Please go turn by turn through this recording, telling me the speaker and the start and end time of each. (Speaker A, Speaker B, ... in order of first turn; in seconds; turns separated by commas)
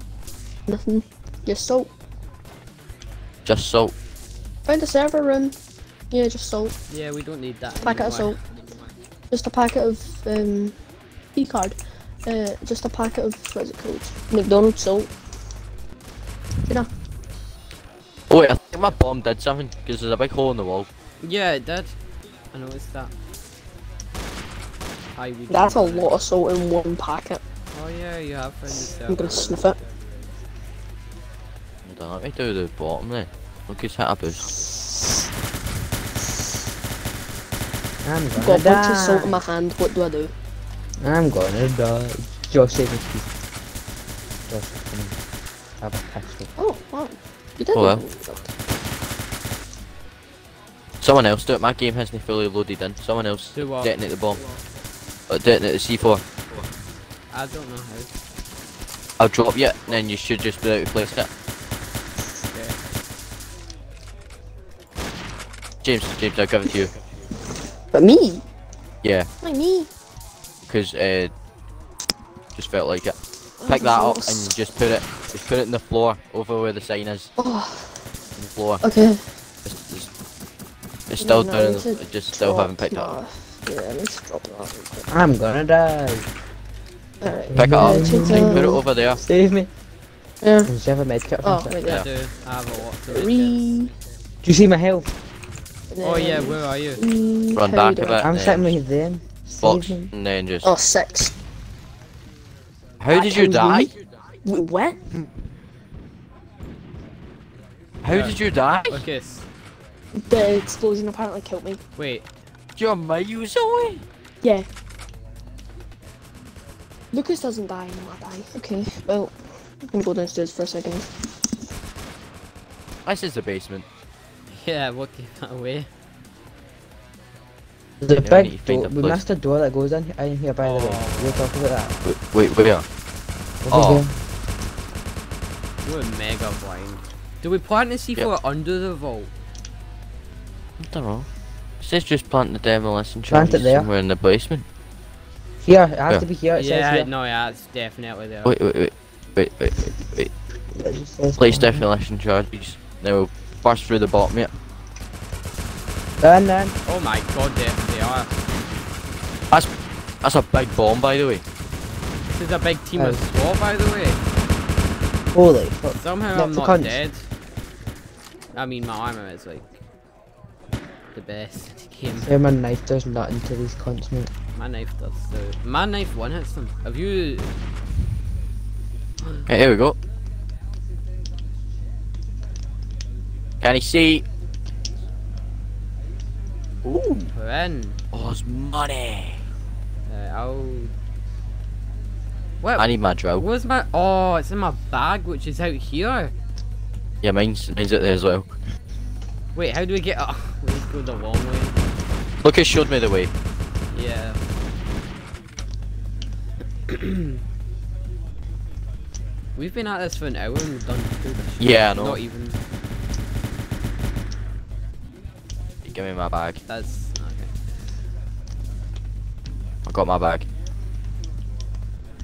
Speaker A: 0.7-1.9, Speaker B: 3.5-3.9, Speaker A: 4.7-5.6, Speaker A: 6.1-6.8, Speaker C: 6.9-8.4, Speaker A: 7.8-8.4, Speaker A: 9.3-10.8, Speaker A: 11.3-15.1, Speaker B: 18.3-20.9, Speaker C: 21.2-21.9, Speaker C: 22.5-23.1, Speaker C: 25.2-26.2, Speaker A: 25.5-27.4, Speaker C: 27.7-29.5, Speaker A: 29.1-29.8, Speaker B: 31.9-34.5, Speaker D: 38.0-39.4, Speaker A: 38.4-40.3, Speaker D: 41.0-43.3, Speaker D: 44.5-45.2, Speaker D: 45.8-46.5, Speaker A: 46.6-48.5, Speaker B: 47.7-48.0, Speaker B: 51.0-54.4, Speaker C: 53.5-53.9, Speaker B: 55.3-56.2, Speaker C: 57.3-58.1, Speaker B: 59.2-61.3, Speaker B: 65.8-66.9, Speaker A: 67.9-68.4, Speaker B: 69.0-69.3, Speaker A: 69.4-69.9, Speaker B: 70.7-71.3, Speaker B: 72.6-77.3, Speaker A: 73.6-74.5, Speaker A: 77.4-78.0, Speaker B: 78.4-78.8, Speaker A: 78.8-79.2, Speaker B: 79.7-80.1, Speaker B: 81.1-83.2, Speaker A: 81.2-85.1, Speaker D: 85.1-86.3, Speaker A: 87.2-88.8, Speaker D: 87.3-89.7, Speaker B: 87.5-89.2, Speaker A: 90.4-90.7, Speaker D: 90.7-91.8, Speaker A: 91.4-92.1, Speaker C: 91.8-93.6, Speaker A: 93.1-93.9, Speaker D: 94.4-95.1, Speaker A: 95.9-98.2, Speaker C: 96.0-97.0, Speaker B: 97.6-98.8, Speaker D: 98.2-100.1, Speaker B: 99.6-100.7, Speaker A: 100.6-101.3, Speaker B: 103.0-103.9, Speaker A: 103.1-103.9, Speaker A: 104.5-105.0, Speaker B: 108.0-109.0, Speaker C: 108.1-109.5, Speaker A: 110.2-111.8, Speaker C: 112.0-112.3, Speaker B: 112.8-114.0, Speaker A: 114.4-114.7, Speaker A: 117.1-119.3, Speaker A: 119.8-121.2, Speaker B: 123.1-123.9, Speaker C: 124.5-125.9, Speaker D: 128.0-132.0, Speaker B: 128.2-129.2, Speaker C: 130.6-131.7, Speaker B: 132.1-132.8, Speaker D: 133.6-134.1, Speaker B: 133.7-134.1, Speaker C: 135.8-139.3, Speaker B: 140.8-141.3, Speaker B: 141.8-144.7, Speaker D: 143.3-143.9, Speaker D: 145.6-147.1, Speaker C: 146.6-148.6, Speaker B: 148.4-150.3, Speaker D: 150.7-151.8, Speaker B: 151.4-154.5, Speaker D: 156.2-156.8, Speaker C: 156.9-158.3, Speaker B: 160.2-161.4, Speaker C: 162.3-164.2, Speaker D: 163.0-163.2, Speaker D: 165.3-167.0, Speaker C: 165.9-167.3, Speaker C: 168.5-169.8, Speaker C: 171.1-172.4, Speaker D: 172.2-174.3, Speaker C: 174.6-177.5, Speaker B: 179.5-180.0, Speaker B: 183.6-184.2, Speaker B: 186.8-187.3, Speaker C: 187.3-188.0, Speaker B: 188.1-189.4, Speaker C: 190.1-190.9, Speaker C: 192.6-196.3, Speaker B: 192.8-193.4, Speaker B: 197.2-198.5, Speaker C: 199.6-201.8, Speaker B: 202.4-203.3, Speaker C: 203.9-204.4, Speaker C: 206.9-207.3, Speaker C: 209.6-212.6, Speaker B: 211.6-212.2, Speaker B: 215.8-216.6, Speaker C: 216.7-217.5, Speaker B: 219.9-220.5